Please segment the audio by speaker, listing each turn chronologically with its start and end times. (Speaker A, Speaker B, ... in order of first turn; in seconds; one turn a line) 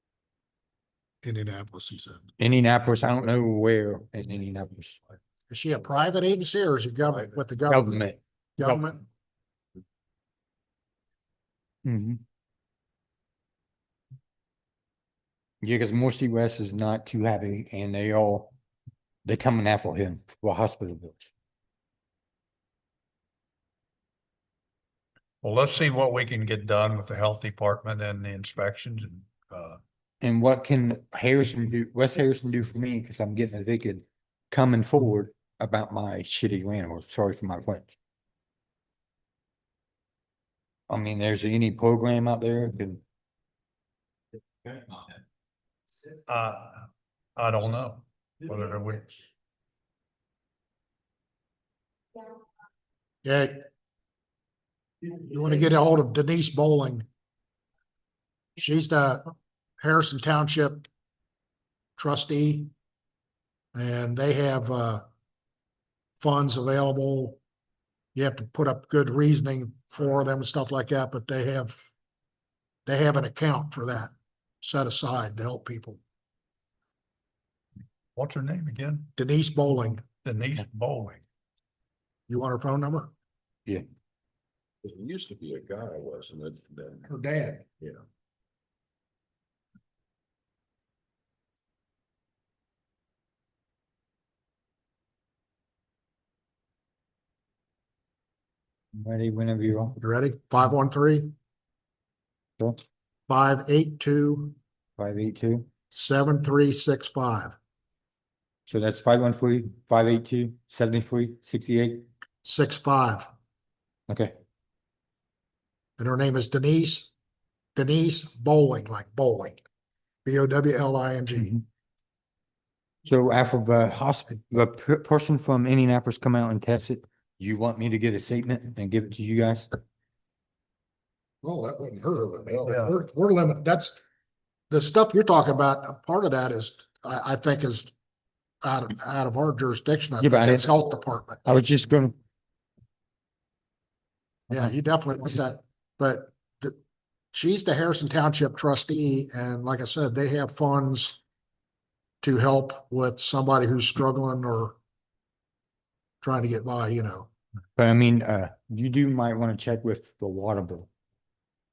Speaker A: 1.2-2.2
Speaker B: 2.4-5.0
Speaker A: 5.5-8.0
Speaker B: 7.7-8.8
Speaker A: 8.6-9.0
Speaker B: 11.8-12.2
Speaker B: 15.6-18.5
Speaker B: 19.2-21.3
Speaker C: 25.4-29.8
Speaker B: 30.2-37.9
Speaker B: 40.9-43.0
Speaker C: 46.3-49.2
Speaker A: 53.2-53.6
Speaker A: 55.2-57.1
Speaker A: 58.6-60.9
Speaker A: 62.0-62.7
Speaker A: 63.7-65.0
Speaker A: 66.2-67.4
Speaker A: 68.1-71.9
Speaker A: 72.8-76.0
Speaker C: 78.2-79.1
Speaker A: 79.2-80.0
Speaker C: 80.2-81.2
Speaker A: 82.3-83.1
Speaker D: 84.8-87.1
Speaker A: 87.1-87.6
Speaker B: 98.9-100.0
Speaker A: 100.0-101.3
Speaker A: 103.3-104.5
Speaker B: 105.0-105.7
Speaker A: 105.9-107.5
Speaker B: 108.7-112.0
Speaker A: 112.4-113.3
Speaker A: 116.0-117.1
Speaker A: 117.7-119.6
Speaker A: 120.2-121.6
Speaker B: 123.0-129.8
Speaker A: 131.4-134.0
Speaker C: 132.7-132.9
Speaker A: 134.7-137.9
Speaker A: 138.6-141.4
Speaker B: 140.2-140.7
Speaker B: 141.4-142.1
Speaker A: 144.5-146.8
Speaker A: 147.3-151.2
Speaker A: 152.2-154.8
Speaker A: 156.2-157.3
Speaker B: 157.8-160.9